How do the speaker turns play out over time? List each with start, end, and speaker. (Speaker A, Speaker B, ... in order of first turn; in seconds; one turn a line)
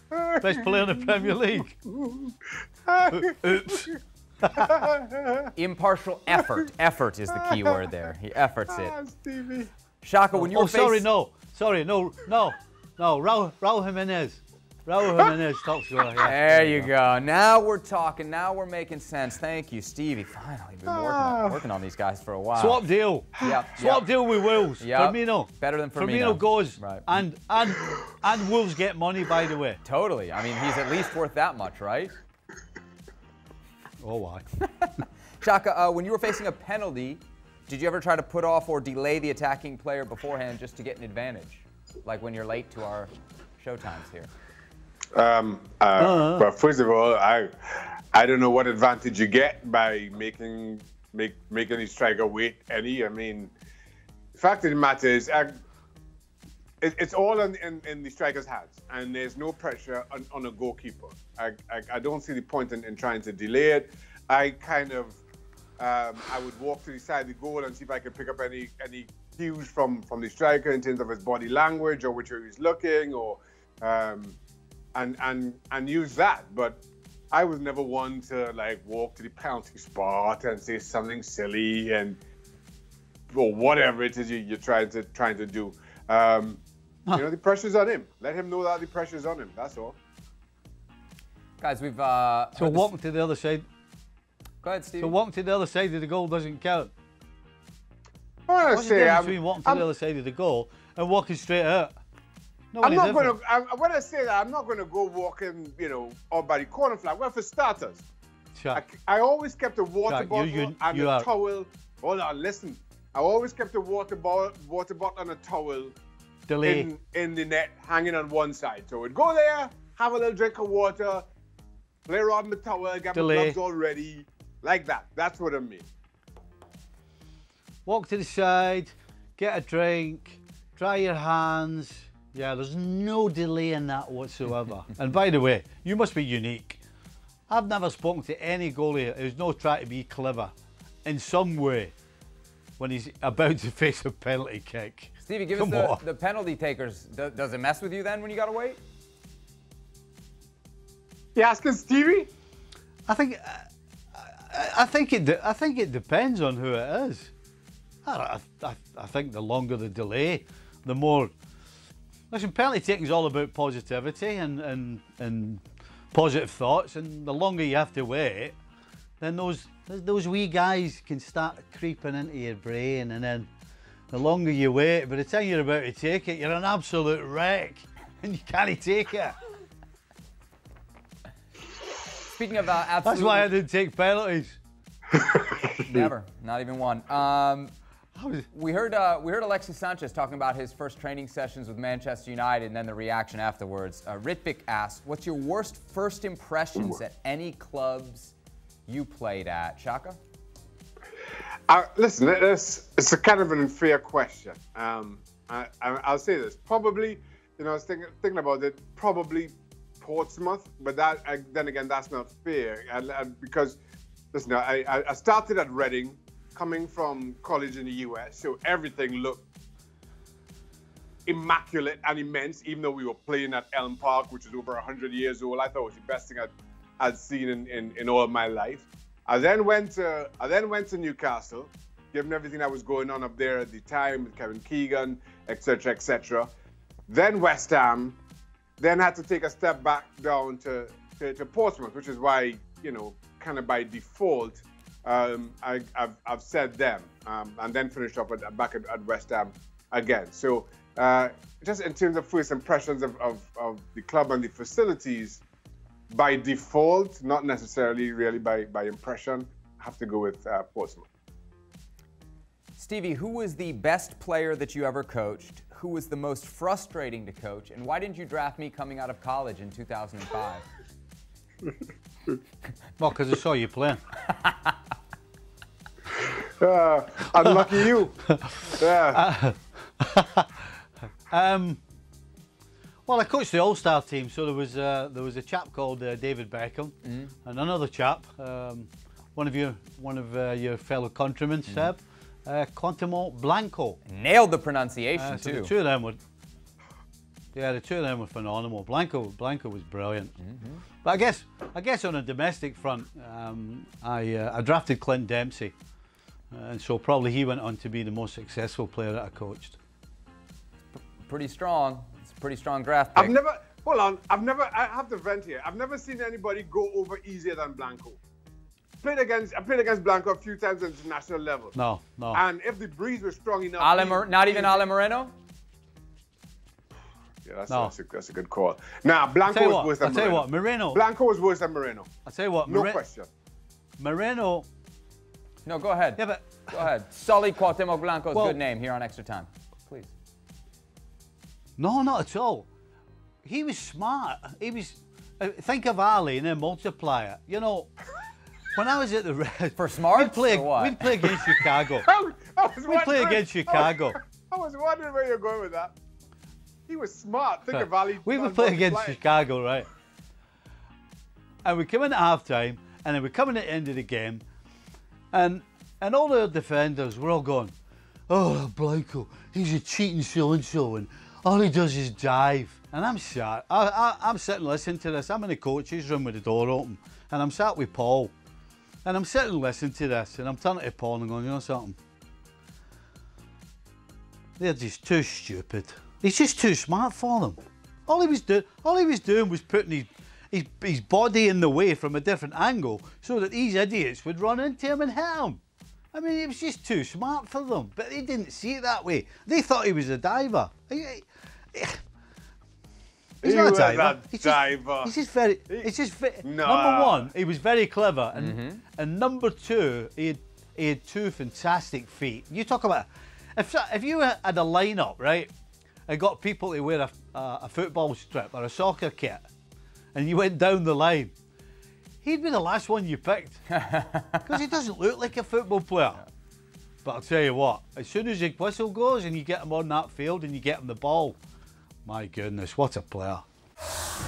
Speaker A: 0.1-4.0
Speaker B: 0.4-1.7
Speaker B: 3.1-4.8
Speaker A: 4.5-5.5
Speaker C: 5.5-8.9
Speaker A: 7.3-7.8
Speaker A: 8.7-9.7
Speaker C: 10.0-11.0
Speaker B: 10.3-16.9
Speaker C: 16.2-22.9
Speaker A: 20.9-21.6
Speaker B: 22.6-29.8
Speaker C: 23.4-24.1
Speaker C: 24.8-27.0
Speaker C: 29.8-32.1
Speaker B: 34.0-34.4
Speaker C: 34.8-44.3
Speaker A: 45.1-53.5
Speaker B: 46.0-46.5
Speaker A: 54.3-55.6
Speaker A: 56.8-65.2
Speaker A: 65.8-74.4
Speaker A: 74.9-82.2
Speaker A: 83.3-86.6
Speaker A: 87.1-90.0
Speaker C: 91.6-92.9
Speaker B: 92.6-93.6
Speaker C: 94.6-95.2
Speaker B: 95.0-96.9
Speaker A: 98.5-99.8
Speaker B: 98.7-101.9
Speaker B: 102.7-103.3
Speaker A: 102.8-108.0
Speaker B: 108.5-108.8
Speaker A: 108.7-115.9
Speaker B: 110.1-111.3
Speaker B: 116.5-116.9
Speaker A: 116.6-121.3
Speaker A: 122.1-125.8
Speaker B: 123.1-123.5
Speaker B: 127.8-136.8
Speaker B: 137.5-140.5
Speaker B: 141.0-141.9
Speaker B: 142.8-146.0
Speaker C: 145.2-148.8
Speaker A: 151.3-152.3
Speaker B: 153.1-153.6
Speaker B: 154.2-157.3
Speaker B: 158.0-161.3
Speaker B: 162.3-168.5
Speaker B: 169.2-173.5
Speaker B: 174.1-179.4
Speaker C: 182.2-183.5
Speaker B: 183.0-184.6
Speaker C: 185.8-187.7
Speaker B: 188.2-188.5
Speaker C: 188.5-198.3
Speaker C: 198.9-200.2
Speaker A: 201.7-213.8
Speaker A: 214.3-219.4
Speaker A: 221.2-236.5
Speaker A: 237.1-238.2
Speaker A: 238.8-255.4
Speaker A: 256.1-261.1
Speaker C: 262.8-270.6
Speaker B: 273.0-274.0
Speaker A: 276.1-279.2
Speaker B: 278.3-280.7
Speaker B: 281.3-281.8
Speaker B: 283.1-294.0
Speaker C: 287.0-287.3
Speaker C: 294.1-295.7
Speaker B: 295.1-296.2
Speaker B: 297.5-300.3
Speaker C: 300.4-300.8
Speaker B: 301.0-305.7
Speaker B: 306.5-309.8
Speaker C: 310.9-313.4
Speaker A: 313.1-318.2
Speaker A: 319.0-321.8
Speaker B: 321.8-322.4
Speaker A: 322.3-324.9
Speaker C: 323.8-325.3
Speaker A: 327.4-332.1
Speaker B: 329.4-331.0
Speaker B: 332.2-333.0
Speaker A: 332.7-333.3
Speaker B: 334.0-334.6
Speaker C: 335.6-340.1
Speaker B: 336.2-336.9
Speaker B: 338.3-338.6
Speaker B: 341.8-342.7
Speaker B: 343.4-347.9
Speaker B: 348.7-352.1
Speaker C: 349.8-351.0
Speaker A: 351.2-355.9
Speaker B: 352.9-354.2
Speaker A: 356.9-359.2
Speaker B: 357.7-359.9
Speaker B: 361.6-364.4
Speaker B: 365.3-367.7
Speaker B: 368.3-378.3
Speaker B: 379.0-382.0
Speaker B: 384.6-395.6
Speaker B: 396.1-402.0
Speaker B: 403.4-415.5
Speaker A: 403.4-405.1
Speaker A: 406.4-407.3
Speaker C: 408.3-408.8
Speaker B: 416.1-419.4
Speaker B: 420.1-421.3
Speaker B: 422.2-423.7
Speaker C: 423.8-424.4
Speaker B: 424.4-426.2
Speaker B: 427.0-431.4
Speaker B: 432.0-433.4